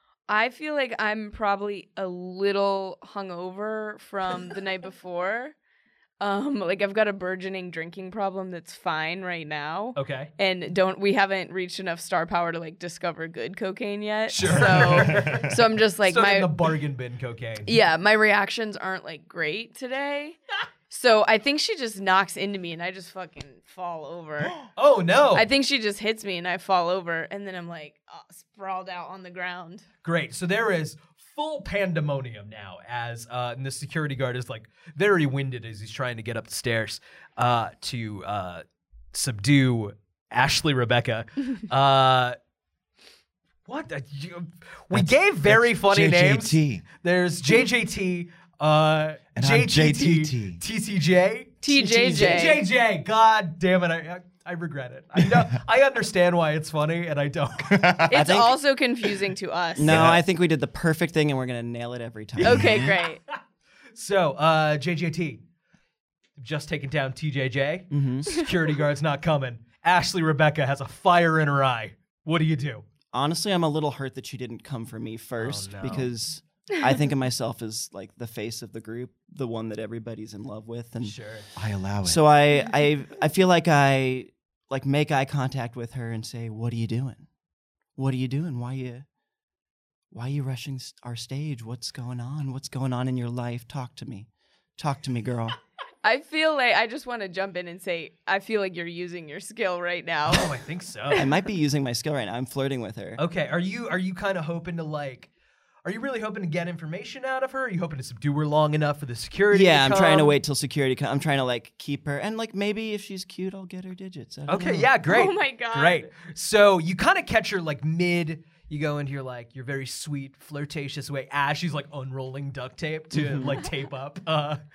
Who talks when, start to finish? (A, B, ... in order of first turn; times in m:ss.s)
0:00.3-0:05.6 A
0:06.2-0:16.5 A
0:10.0-0:10.3 B
0:14.3-0:17.7 B
0:14.4-0:15.6 C
0:17.6-0:20.4 A
0:20.9-0:24.6 A
0:24.4-0:24.7 C
0:24.8-0:25.5 B
0:25.3-0:29.9 A
0:30.0-0:42.4 B
0:43.7-0:58.0 B
0:44.9-0:46.8 C
0:49.4-0:50.6 C
0:51.6-0:52.6 A
0:51.7-0:52.5 D
0:55.2-0:55.6 C
0:57.6-0:58.4 C
0:58.1-1:00.0 A
0:58.1-0:58.6 D
0:59.8-1:02.9 D
0:59.8-1:00.2 C
1:02.4-1:03.0 C
1:02.4-1:03.2 A
1:04.0-1:05.4 B
1:06.4-1:12.8 B
1:07.9-1:08.4 D
1:13.1-1:21.2 D
1:15.4-1:16.1 B
1:21.0-1:21.5 B
1:21.6-1:22.3 C
1:22.0-1:27.3 D
1:28.0-1:29.1 D
1:30.1-1:35.6 D
1:36.0-1:40.6 A
1:40.3-1:41.3 B
1:41.1-1:43.2 D
1:43.2-1:45.3 B
1:45.8-1:50.4 B
1:49.5-1:54.9 D
1:54.5-2:04.6 B
1:55.1-1:56.1 A
2:03.1-2:03.6 D